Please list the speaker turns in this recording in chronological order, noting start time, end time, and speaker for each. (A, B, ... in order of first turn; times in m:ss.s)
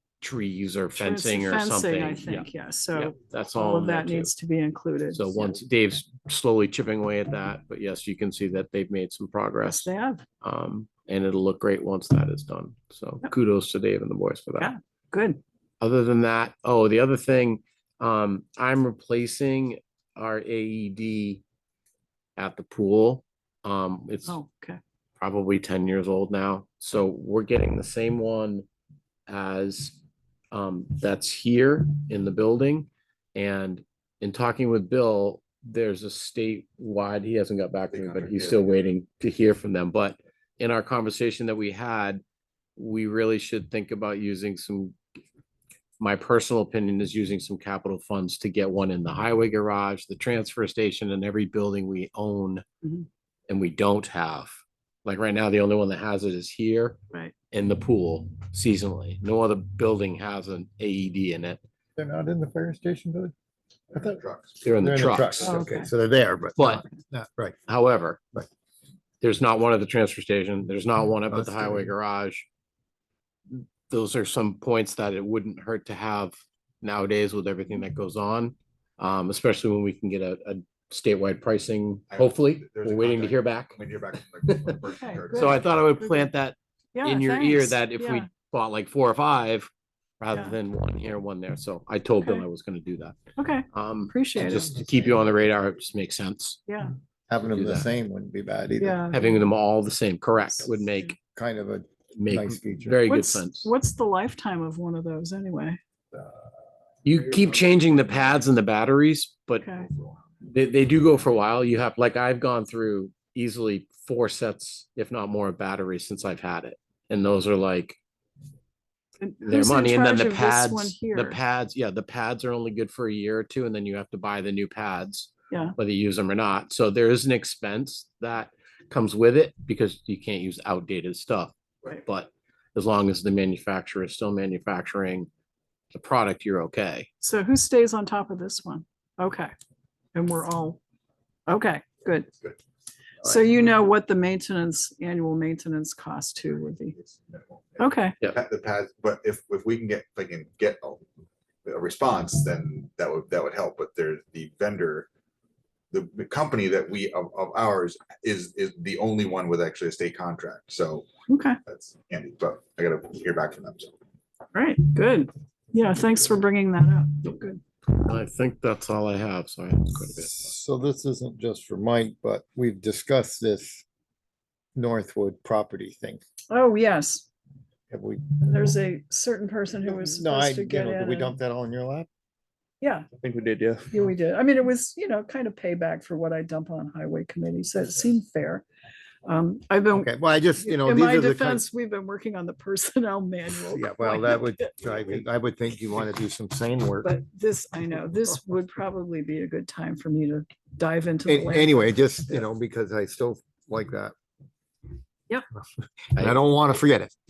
0:00.2-0:04.3 A
0:01.0-0:05.6 B
0:05.1-0:09.9 A
0:09.6-0:10.2 B
0:10.4-0:14.7 A
0:14.6-0:15.4 B
0:15.8-0:21.4 A
0:22.4-0:24.4 A
0:24.3-0:24.8 B
0:25.2-0:28.7 A
0:29.3-0:30.0 A
0:30.5-0:42.2 A
0:37.9-0:38.9 C
0:42.8-0:45.0 A
0:46.0-0:52.6 A
0:53.5-0:57.0 A
0:57.5-1:01.6 A
1:02.0-1:03.3 D
1:03.9-1:05.3 C
1:03.9-1:04.2 D
1:04.6-1:05.6 A
1:04.8-1:07.6 D
1:05.4-1:05.9 B
1:06.6-1:06.8 A
1:07.7-1:08.4 A
1:09.2-1:12.4 A
1:11.3-1:11.9 D
1:13.5-1:23.8 A
1:22.1-1:25.7 C
1:24.5-1:24.8 A
1:24.9-1:26.3 B
1:25.3-1:33.2 A
1:26.9-1:28.3 B
1:33.4-1:34.8 B
1:33.7-1:36.7 A
1:34.4-1:35.3 D
1:36.7-1:36.9 B
1:37.3-1:39.2 D
1:37.4-1:37.9 A
1:38.8-1:39.2 B
1:39.1-1:41.2 A
1:41.3-1:43.0 D
1:42.2-1:43.7 A
1:43.1-1:45.8 B
1:46.1-1:46.5 C
1:47.0-1:49.7 A
1:47.1-1:48.3 C
1:49.6-1:49.9 B
1:49.7-1:50.4 C
1:50.4-1:58.0 A
1:59.2-2:01.4 B
1:59.4-2:15.3 A
2:15.9-2:17.1 A
2:17.2-2:19.5 B
2:20.2-2:20.8 B
2:21.5-2:22.3 B
2:23.2-2:27.0 B
2:26.8-2:31.0 C
2:27.8-2:28.2 B
2:31.6-2:35.1 C
2:35.9-2:41.1 C
2:41.3-2:41.6 B
2:41.7-2:43.9 C
2:44.5-2:47.6 B
2:47.9-2:50.5 A
2:50.1-2:53.8 D
2:54.8-2:56.2 D
2:56.5-2:57.3 B
2:57.9-2:58.7 D
2:58.4-3:01.3 B
2:59.8-3:02.1 D
3:02.8-3:03.1 B
3:03.2-3:03.9 D
3:03.9-3:08.6 B
3:09.2-3:14.7 B
3:09.9-3:11.6 D
3:13.7-3:17.2 D
3:17.0-3:22.4 B
3:21.3-3:24.1 D
3:26.2-3:27.1 D